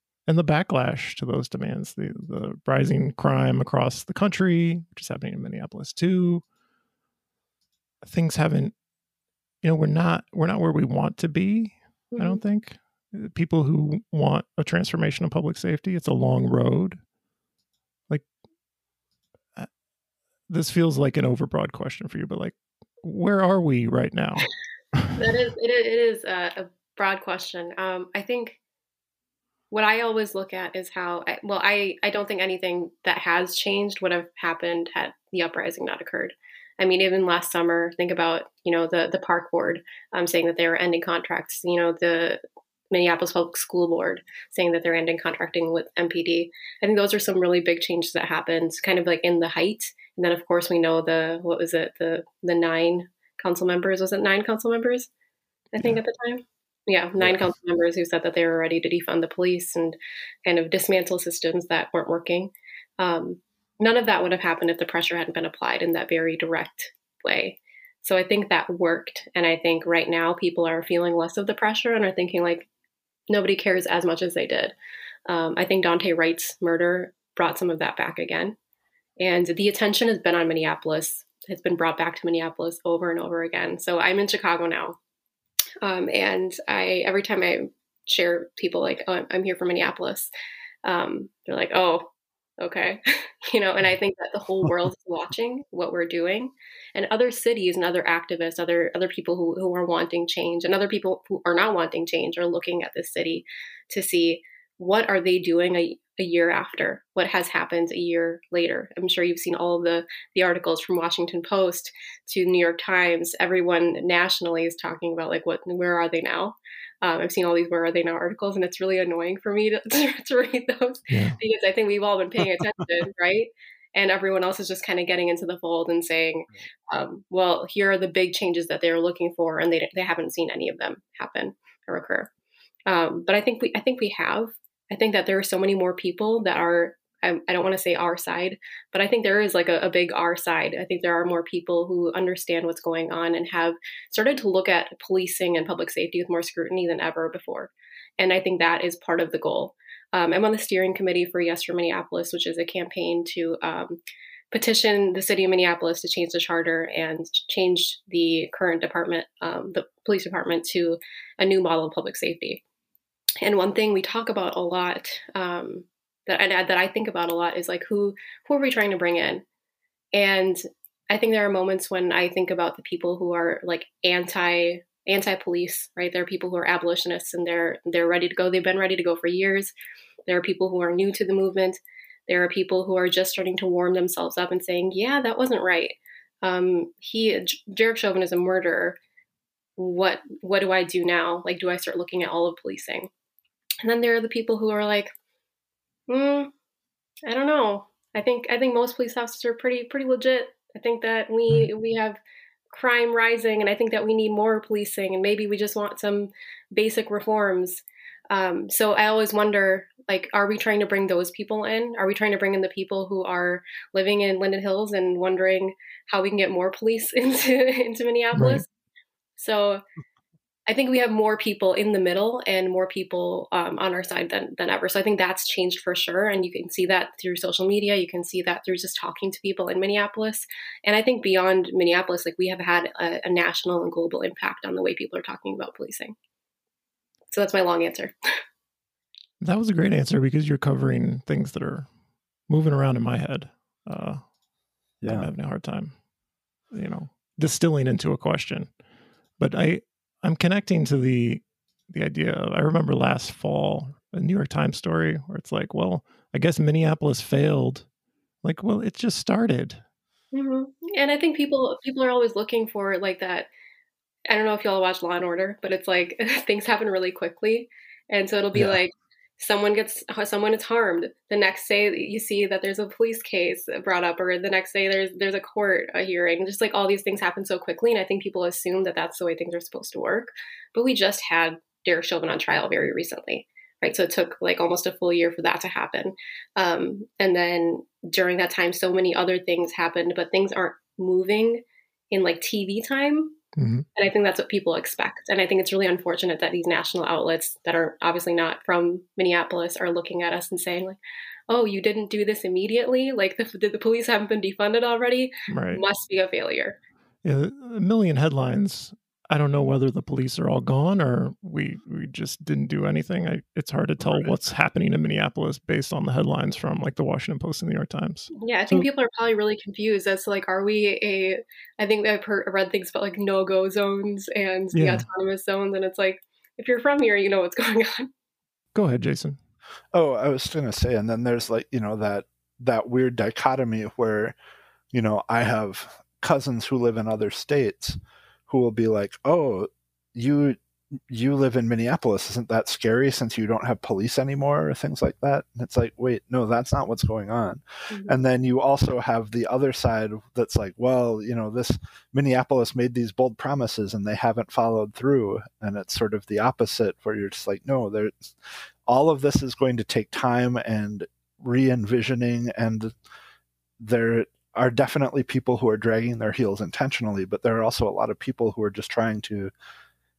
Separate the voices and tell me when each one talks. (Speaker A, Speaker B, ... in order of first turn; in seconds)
Speaker A: 0.3-6.5, 8.0-8.8, 9.6-17.0, 20.5-24.5, 121.1-121.4, 218.3-218.6, 239.4-241.9, 242.5-244.2, 245.1-246.0, 246.7-248.7, 249.4-257.9, 258.4-259.8, 293.6-293.9, 305.5-305.8, 307.2-318.9, 324.7-325.1, 328.7-329.4
Speaker B: 12.1-12.4, 25.2-28.6, 29.7-55.1, 55.7-72.7, 73.3-74.7, 75.3-78.6, 79.2-85.0, 85.8-90.3, 90.8-132.3, 132.9-154.0, 154.5-162.6, 163.4-169.4, 170.1-179.7, 180.3-189.0, 189.8-193.1, 193.8-195.1, 196.1-196.5, 197.3-202.2, 202.7-218.7, 219.4-219.8, 220.7-236.2, 237.3-238.1, 260.3-263.5, 264.3-293.4, 293.9-301.0, 301.5-306.8, 318.4-328.1, 347.9-348.2
Speaker C: 57.2-57.5, 245.0-245.3, 329.9-334.4, 334.9-358.2, 358.9-362.9, 363.8-369.5